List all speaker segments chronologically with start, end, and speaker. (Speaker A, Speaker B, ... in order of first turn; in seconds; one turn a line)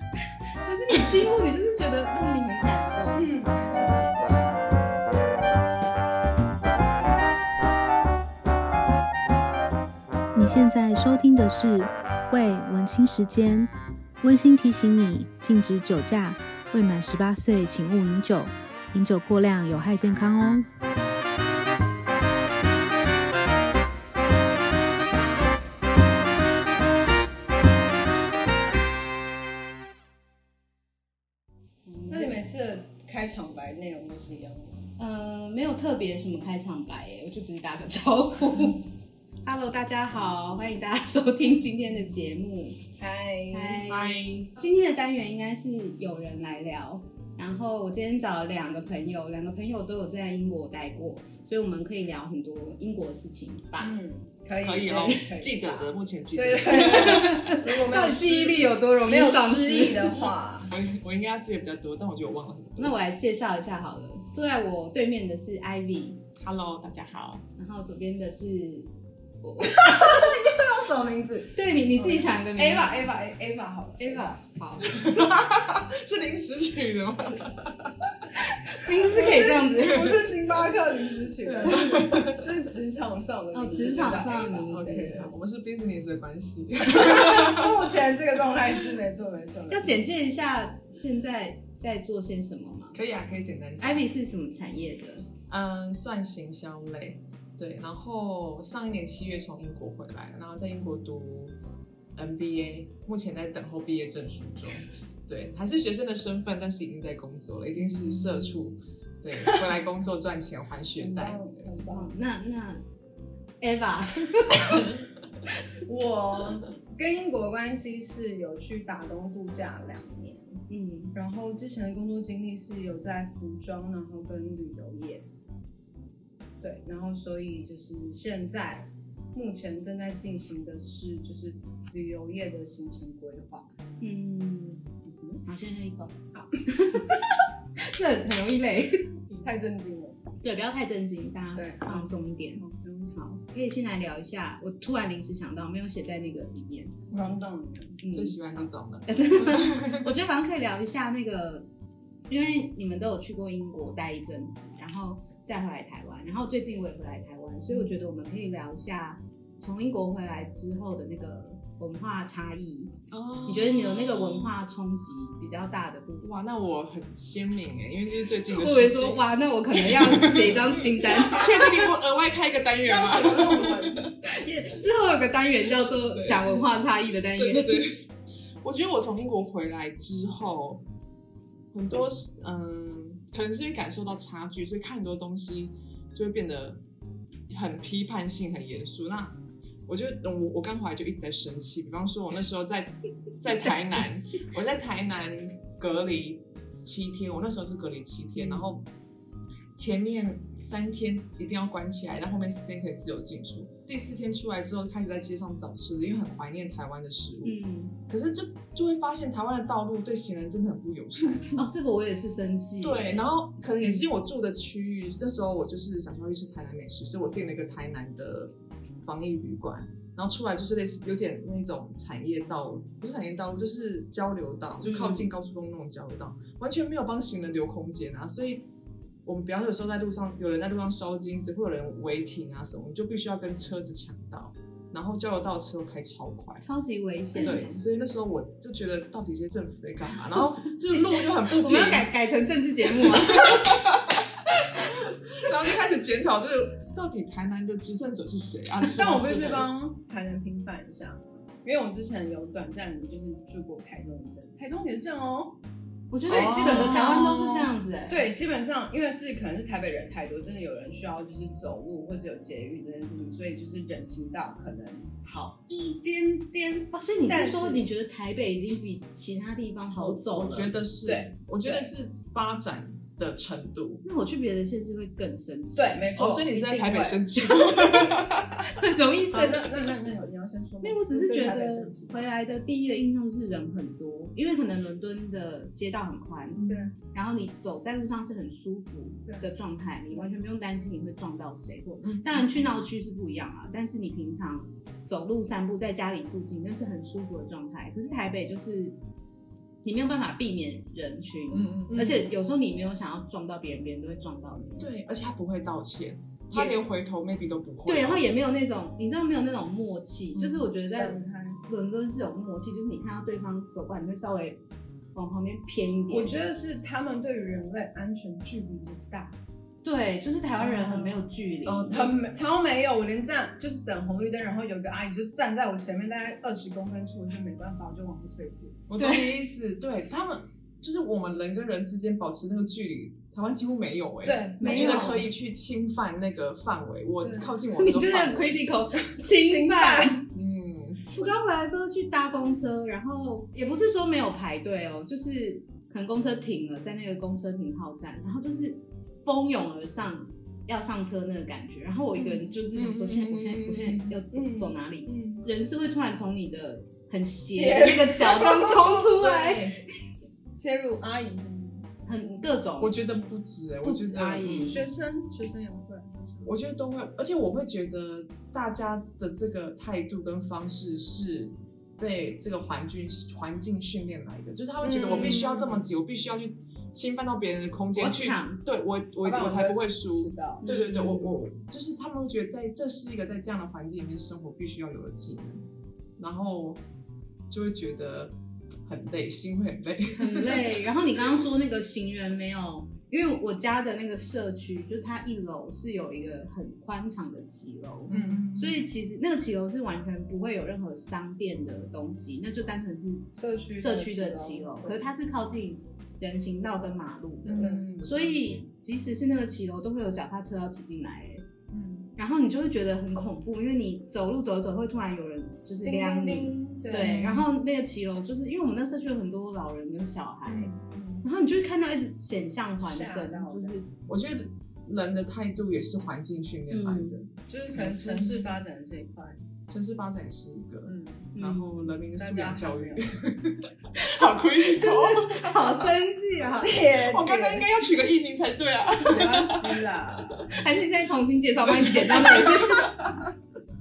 Speaker A: 0.6-4.2
Speaker B: 3.1-4.8
Speaker C: 10.3-20.7
Speaker A: 31.9-32.4
Speaker B: 32.1-34.8
Speaker A: 35.0-38.8
Speaker A: 39.4-42.8
Speaker B: 43.0-43.9
Speaker A: 43.5-54.0
Speaker D: 43.9-44.5
Speaker B: 53.8-60.7
Speaker D: 54.6-57.5
Speaker A: 56.8-60.2
Speaker D: 60.7-63.0
Speaker A: 62.8-66.2
Speaker D: 66.4-67.5
Speaker A: 67.5-68.9
Speaker A: 69.4-70.3
Speaker B: 69.7-74.4
Speaker A: 71.5-73.1
Speaker A: 74.0-75.0
Speaker D: 74.8-78.4
Speaker A: 78.7-80.3
Speaker B: 79.1-85.3
Speaker D: 79.7-80.7
Speaker D: 81.3-82.6
Speaker A: 83.5-85.3
Speaker D: 84.7-87.9
Speaker B: 86.9-90.0
Speaker A: 89.7-93.0
Speaker D: 92.9-94.1
Speaker A: 93.8-95.3
Speaker D: 95.5-101.5
Speaker D: 102.2-111.8
Speaker B: 111.0-112.1
Speaker A: 111.0-112.8
Speaker A: 113.6-114.9
Speaker B: 115.8-120.6
Speaker A: 120.7-121.1
Speaker B: 121.1-125.3
Speaker B: 126.6-133.7
Speaker A: 134.0-134.9
Speaker B: 135.0-135.4
Speaker A: 135.4-137.2
Speaker A: 137.8-139.1
Speaker B: 139.4-140.2
Speaker A: 140.4-147.0
Speaker B: 141.5-143.1
Speaker B: 147.1-148.0
Speaker A: 148.0-148.4
Speaker D: 148.1-150.1
Speaker A: 149.1-151.7
Speaker A: 152.3-162.9
Speaker D: 163.1-164.6
Speaker A: 163.4-166.3
Speaker D: 166.2-174.1
Speaker A: 168.5-171.9
Speaker B: 172.8-174.5
Speaker A: 174.2-177.9
Speaker D: 176.1-176.7
Speaker D: 177.4-178.1
Speaker D: 178.6-180.8
Speaker D: 181.7-186.8
Speaker D: 187.5-198.9
Speaker A: 193.6-194.1
Speaker A: 198.3-198.7
Speaker D: 199.8-207.6
Speaker A: 207.4-207.9
Speaker D: 208.1-211.6
Speaker A: 211.5-213.2
Speaker D: 212.8-218.5
Speaker D: 219.0-228.7
Speaker A: 224.8-225.3
Speaker D: 229.2-236.6
Speaker A: 236.6-237.8
Speaker D: 237.3-242.1
Speaker A: 240.6-243.9
Speaker D: 243.0-244.2
Speaker A: 244.5-245.0
Speaker D: 244.8-249.7
Speaker B: 248.8-255.6
Speaker A: 256.1-258.3
Speaker B: 256.2-257.5
Speaker D: 256.2-257.7
Speaker B: 258.1-267.8
Speaker A: 266.9-270.7
Speaker D: 270.0-274.0
Speaker B: 271.0-271.9
Speaker A: 274.0-276.0
Speaker B: 275.8-277.5
Speaker D: 276.1-278.7
Speaker A: 278.7-279.7
Speaker B: 279.3-282.2
Speaker A: 280.8-299.0
Speaker D: 286.5-286.9
Speaker B: 286.7-286.9
Speaker D: 292.0-292.5
Speaker A: 299.8-304.9
Speaker D: 301.5-302.2
Speaker D: 304.8-308.2
Speaker A: 307.9-314.6
Speaker D: 310.4-310.6
Speaker B: 310.8-311.6
Speaker A: 315.1-316.3
Speaker B: 316.1-319.4
Speaker A: 319.8-322.1
Speaker B: 320.6-328.8
Speaker D: 328.9-338.6
Speaker A: 329.0-329.4
Speaker B: 334.2-335.2
Speaker A: 334.6-335.2
Speaker B: 337.2-337.5
Speaker A: 337.7-340.2
Speaker B: 339.0-340.2
Speaker D: 340.3-341.1
Speaker A: 341.1-359.8
Speaker D: 352.2-354.1
Speaker B: 354.3-355.5
Speaker B: 357.5-359.2
Speaker D: 359.2-359.8
Speaker B: 360.5-361.9
Speaker A: 362.1-363.0
Speaker D: 362.8-364.8
Speaker A: 363.8-364.8
Speaker B: 364.6-366.5
Speaker D: 366.4-385.6
Speaker B: 374.8-375.8
Speaker A: 375.1-375.6
Speaker A: 377.9-378.6
Speaker B: 379.2-380.6
Speaker A: 380.6-381.3
Speaker D: 386.2-386.8
Speaker D: 387.5-390.8
Speaker A: 390.1-411.4
Speaker D: 398.1-398.8
Speaker B: 398.1-398.5
Speaker B: 403.3-405.1
Speaker D: 407.4-408.6
Speaker B: 407.6-408.0
Speaker B: 411.7-412.1
Speaker A: 412.2-420.7
Speaker B: 415.8-417.2
Speaker D: 417.0-417.5
Speaker B: 420.4-421.2
Speaker A: 421.2-423.9
Speaker B: 422.8-423.8
Speaker D: 424.1-428.5
Speaker A: 426.7-427.2
Speaker B: 427.4-429.4
Speaker D: 429.7-435.9
Speaker B: 430.8-431.3
Speaker A: 431.3-431.9
Speaker B: 432.1-433.1
Speaker A: 434.0-436.8
Speaker B: 436.4-437.9
Speaker D: 436.9-440.6
Speaker B: 439.0-440.5
Speaker A: 440.5-442.9
Speaker D: 441.6-443.3